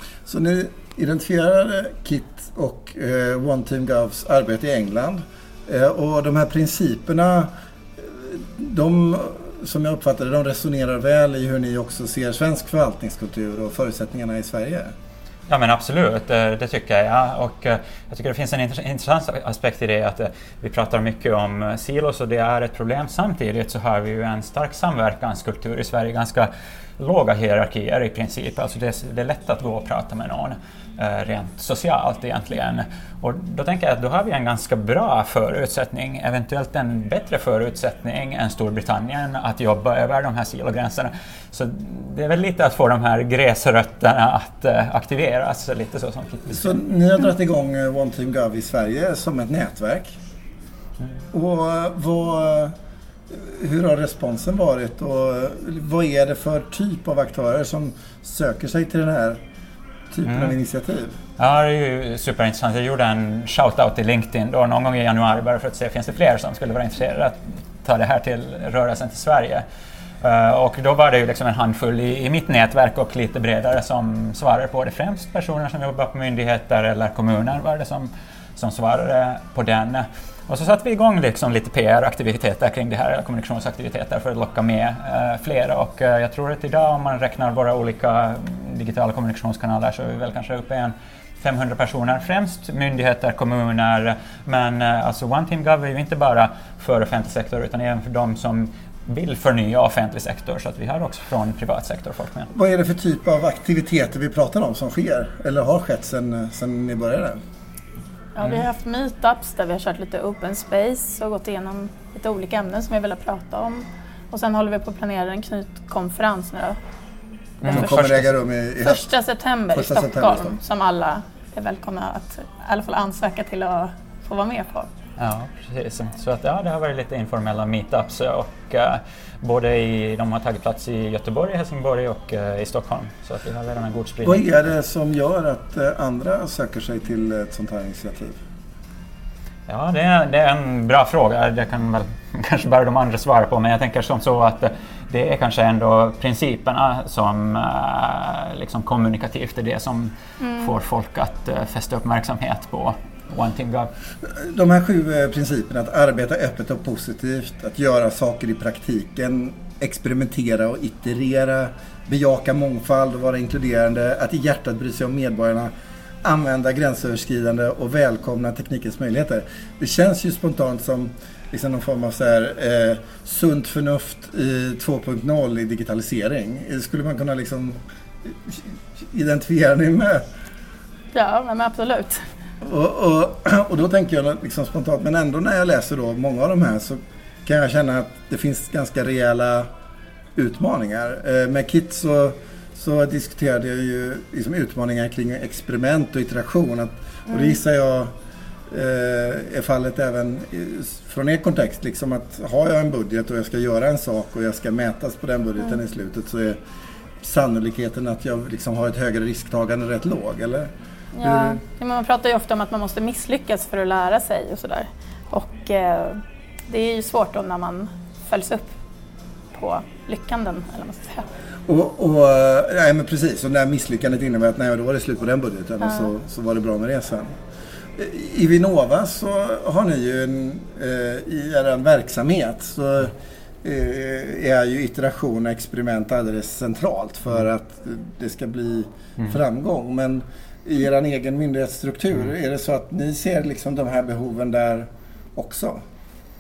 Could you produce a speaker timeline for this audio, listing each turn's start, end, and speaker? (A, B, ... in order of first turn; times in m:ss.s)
0:00.3-0:14.9 A
0:15.5-0:46.8 B
0:46.5-0:50.2 A
0:51.3-0:52.7 A
0:53.3-0:59.4 A
1:00.1-1:01.2 A
1:01.4-1:09.6 B
1:10.2-1:42.5 B
1:42.5-1:47.4 A
1:48.4-1:56.8 C
1:57.6-1:58.1 C
1:57.6-1:58.3 B
1:57.7-1:59.1 A
1:58.8-2:04.9 C
1:59.7-2:00.6 A
2:05.2-2:14.4 B
2:14.2-2:18.4 A
2:19.7-2:33.9 B
2:30.4-2:30.7 C
2:34.2-2:45.7 A
2:46.2-3:00.2 A
3:01.1-3:02.2 C
3:02.6-3:09.7 A
3:10.4-3:18.1 A
3:18.7-3:26.6 A
3:27.2-3:30.7 A
3:31.2-3:38.7 C
3:31.2-3:31.6 A
3:39.5-3:41.2 C
3:41.7-3:47.3 A
3:45.8-3:46.1 C
3:48.0-4:05.8 A